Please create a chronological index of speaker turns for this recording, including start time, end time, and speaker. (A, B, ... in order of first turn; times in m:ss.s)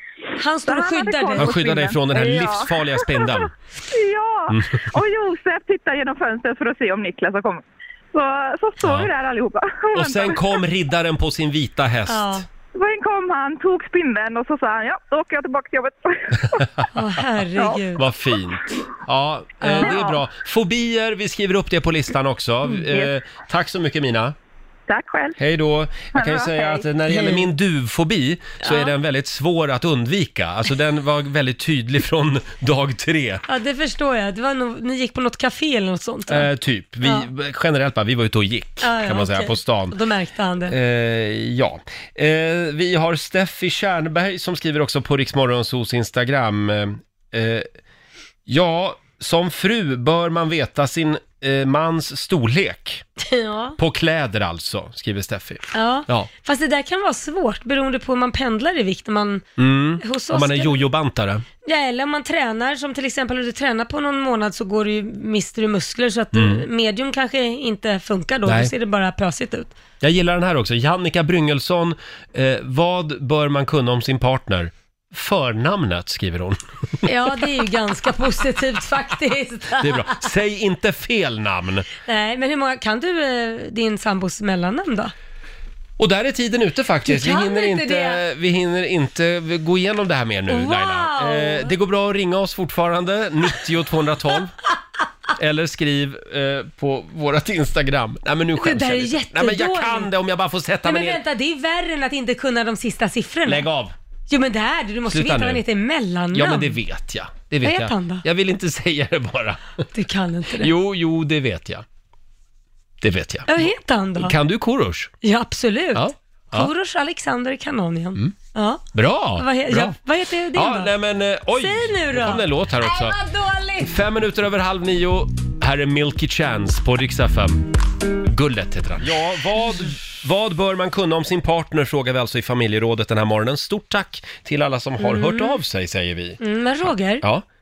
0:00.4-0:01.6 A
0:00.6-0:10.6 B
0:01.4-0:03.5 C
0:04.5-0:04.8 C
0:08.8-0:09.1 C
0:09.9-0:12.4 C
0:12.1-0:12.4 A
0:12.7-0:16.6 B
0:16.9-0:18.0 A
0:17.6-0:17.8 B
0:18.0-0:24.3 C
0:19.6-0:20.0 A
0:19.7-0:20.1 B
0:24.9-0:25.4 B
0:25.4-0:33.4 C
0:26.1-0:26.8 B
0:33.5-0:36.5 A
0:36.3-0:40.0 C
0:38.8-0:40.7 A
0:40.7-0:47.7 C
0:48.5-0:53.0 C
0:53.2-0:53.8 A
0:53.8-0:56.3 C
0:55.7-0:59.4 A
0:59.6-1:01.4 C
1:00.0-1:00.8 A
1:01.6-1:09.7 A
1:06.3-1:06.6 C
1:08.4-1:08.7 C
1:10.0-1:17.1 C
1:17.0-1:20.1 A
1:19.8-1:21.9 C
1:22.0-1:25.1 A
1:26.0-1:34.5 C
1:27.0-1:28.2 A
1:30.5-1:31.7 A
1:35.4-1:41.2 C
1:38.6-1:40.1 A
1:40.8-1:43.7 A
1:43.4-1:43.9 C
1:44.3-1:46.8 A
1:45.1-1:45.6 C
1:46.3-1:49.7 C
1:47.6-1:48.2 A
1:49.9-1:50.7 A
1:50.6-1:51.8 C
1:53.0-1:55.1 C
1:53.5-1:54.4 A
1:55.2-2:00.9 A
1:55.9-1:56.7 C
1:58.9-2:00.0 C
2:00.5-2:03.2 C
2:01.5-2:03.9 A
2:03.8-2:07.6 C
2:08.2-2:16.4 C
2:15.0-2:15.6 A
2:16.4-2:17.2 A